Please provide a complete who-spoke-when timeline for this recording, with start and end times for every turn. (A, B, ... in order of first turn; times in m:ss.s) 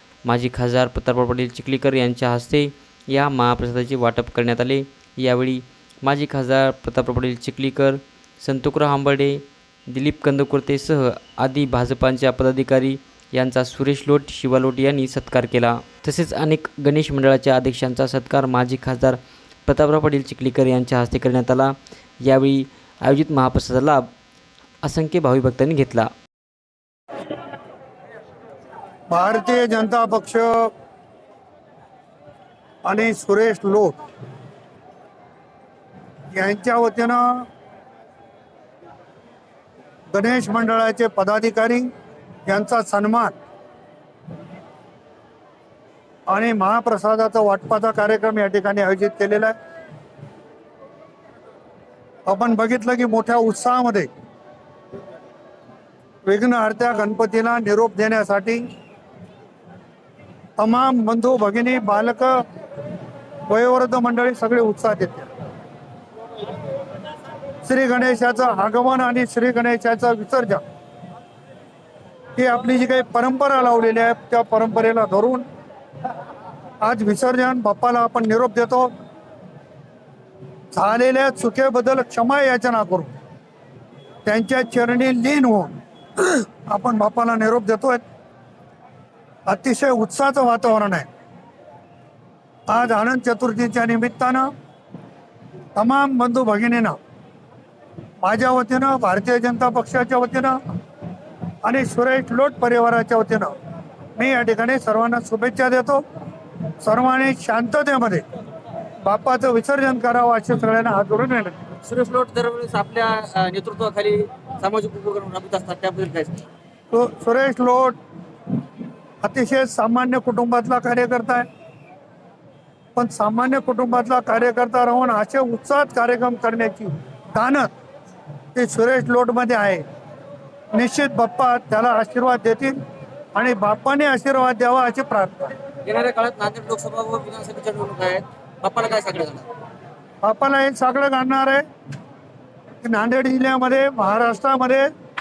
0:00.2-0:24.1 A
0:24.8-0:26.1 A
0:29.1-0:30.7 B
0:32.8-0:34.0 B
0:36.3-0:37.5 B
0:40.1-0:41.9 B
0:42.5-0:43.3 B
0:46.3-0:49.6 B
0:52.3-0:54.1 B
0:56.3-0:58.7 B
1:00.6-1:02.4 B
1:03.5-1:05.3 B
1:07.6-1:10.6 B
1:12.4-1:15.5 B
1:16.8-1:18.9 B
1:20.7-1:23.1 B
1:24.2-1:28.0 B
1:29.5-1:31.1 B
1:32.7-1:34.5 B
1:35.8-1:37.0 B
1:38.2-1:40.6 B
1:41.6-1:43.6 B
1:44.2-1:46.0 B
1:46.8-1:48.2 B
1:49.0-1:51.6 B
1:51.8-1:56.4 C
1:56.9-1:58.0 B
1:59.2-2:01.5 B
2:03.0-2:07.7 B
2:08.6-2:09.8 B
2:10.7-2:12.8 B
2:13.4-2:15.5 B
2:15.9-2:19.5 C
2:20.2-2:21.6 B
2:22.8-2:24.9 B